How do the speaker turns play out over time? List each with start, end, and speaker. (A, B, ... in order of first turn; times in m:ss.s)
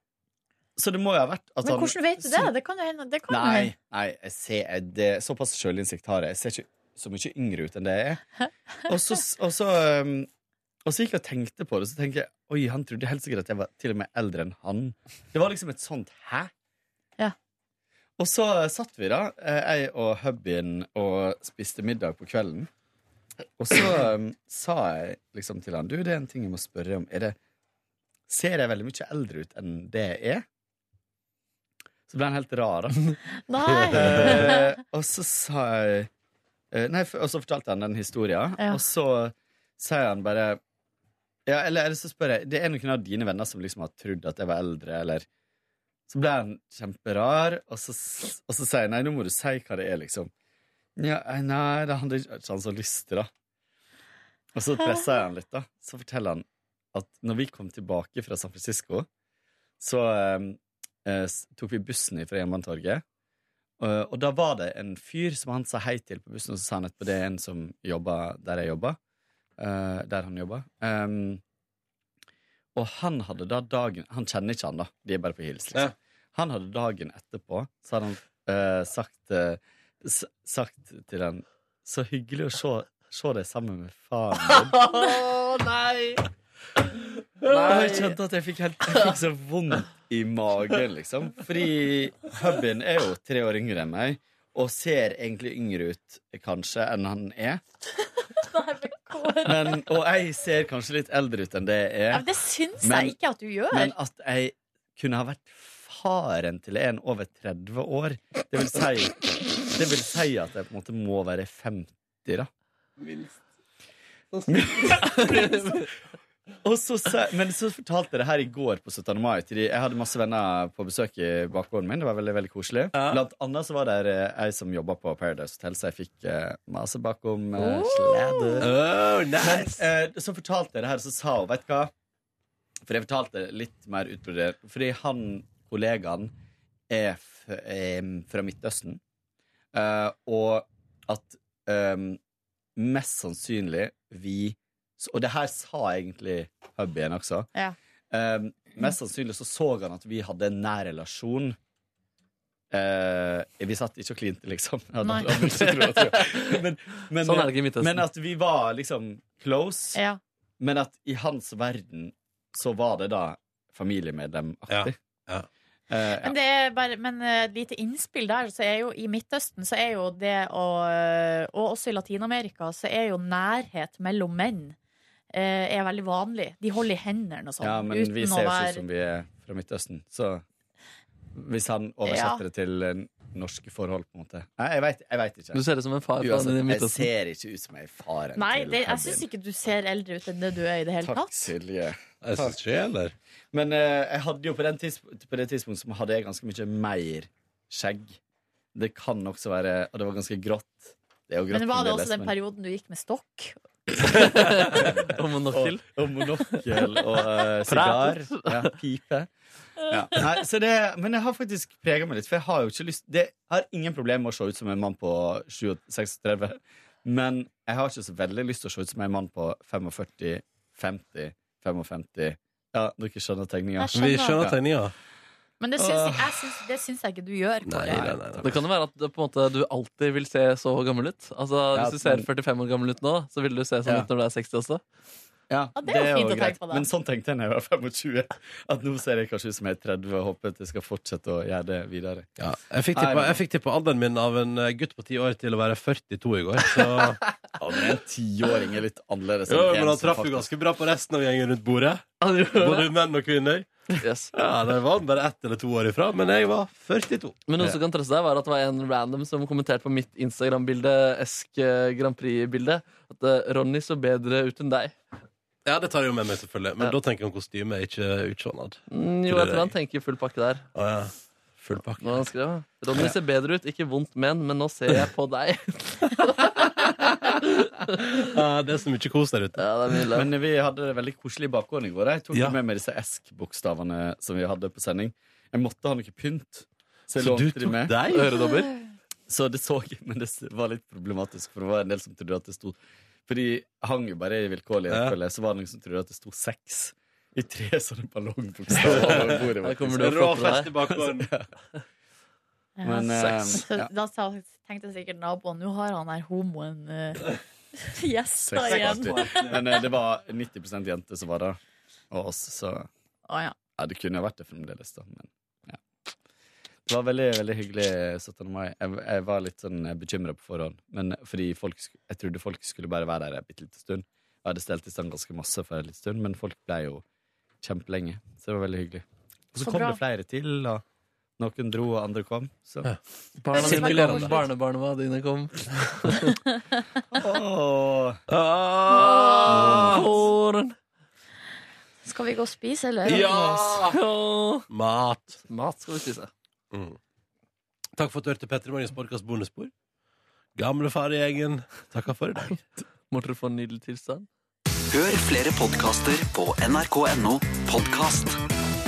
0:00.8-0:02.5 A
0:01.6-0:03.7 B
0:03.3-0:08.2 A
0:08.9-0:10.3 A
0:10.8-0:16.5 A
0:18.2-0:22.7 A
0:23.6-0:27.4 A
0:28.3-0:30.4 A
0:32.1-0:33.2 A
0:33.5-0:34.7 B
0:33.9-0:36.1 A
0:36.7-0:40.6 A
0:41.5-0:45.3 A
0:46.1-0:50.3 A
0:51.0-0:53.3 A
0:54.6-0:59.1 A
0:59.8-1:03.0 A
1:03.8-1:09.0 A
1:09.6-1:11.4 A
1:12.8-1:24.8 A
1:24.6-1:26.2 C
1:27.5-1:28.2 C
1:27.5-1:37.6 A
1:38.3-1:39.8 B
1:39.4-1:42.3 A
1:42.1-1:44.0 B
1:42.8-1:43.2 A
1:43.7-1:52.5 A
1:53.0-1:53.4 D
1:54.3-1:55.0 D
1:54.5-1:55.8 A
1:55.2-1:55.7 C
1:56.6-2:08.8 A
2:02.9-2:03.2 D
2:07.6-2:08.6 B
2:08.6-2:09.8 D
2:09.3-2:11.9 A
2:12.9-2:16.3 A
2:16.9-2:19.0 A
2:19.7-2:22.2 A
2:22.8-2:27.5 A
2:28.1-2:31.6 A
2:32.7-2:40.0 A
2:35.3-2:36.6 C
2:37.2-2:38.1 C
2:40.0-2:40.2 B
2:40.6-2:45.0 A
2:44.7-2:45.5 D
2:45.9-2:46.3 A
2:46.2-2:54.8 B
2:55.3-2:58.8 B
2:57.6-3:00.4 A
3:01.4-3:05.6 A
3:02.0-3:02.4 B
3:05.5-3:07.1 C
3:06.2-3:09.2 A
3:08.4-3:11.5 B
3:11.0-3:12.6 A
3:12.2-3:13.1 D
3:13.5-3:18.2 A
3:18.8-3:22.3 A
3:21.5-3:23.6 B
3:24.4-3:25.8 C
3:24.6-3:29.3 A
3:27.7-3:28.7 C
3:29.8-3:44.6 A
3:43.8-3:44.4 B
3:44.0-3:44.9 D
3:45.6-3:48.1 B
3:45.8-3:46.4 A
3:47.7-3:48.5 D
3:47.9-3:48.4 A
3:48.4-3:54.8 C
3:51.8-3:52.3 A
3:55.5-4:02.3 A
3:55.8-3:56.9 B
4:02.4-4:08.0 D
4:02.9-4:03.4 A
4:06.7-4:07.0 C
4:07.6-4:10.5 A
4:09.5-4:13.7 D
4:12.2-4:12.9 C
4:14.0-4:14.4 C
4:14.3-4:17.4 D
4:17.5-4:25.0 C
4:25.6-4:29.7 D
4:28.9-4:30.7 C
4:30.8-4:32.2 D
4:32.0-4:37.0 C
4:37.0-4:37.4 D
4:38.0-4:39.7 D
4:39.6-4:40.3 C
4:40.1-4:48.0 A
4:47.2-4:48.4 D
4:48.1-4:48.7 C
4:49.3-5:00.1 A
4:54.9-4:55.2 D
4:58.8-5:01.3 D
4:58.8-5:00.7 C
5:00.9-5:01.5 A
5:02.8-5:07.2 B
5:02.8-5:03.9 A
5:03.2-5:03.6 C
5:07.8-5:09.8 B
5:08.5-5:11.6 A
5:08.8-5:09.5 D
5:12.1-5:12.9 A
5:13.3-5:13.6 B
5:13.8-5:15.8 A
5:16.9-5:27.0 A
5:27.6-5:30.8 A
5:29.6-5:30.0 B
5:31.4-5:33.0 A
5:33.4-5:36.3 C
5:33.5-5:34.4 B
5:33.6-5:34.3 D
5:37.2-5:38.2 A
5:38.3-5:40.1 D
5:38.9-5:39.9 B
5:39.4-5:40.8 C
5:42.0-5:43.3 B
5:43.0-5:44.0 D
5:43.1-5:44.7 C
5:44.7-5:45.4 D
5:45.5-5:46.3 C
5:46.7-5:47.0 D
5:47.9-5:49.7 D
5:50.6-5:52.6 D
5:53.1-5:54.3 C
5:54.9-5:58.4 E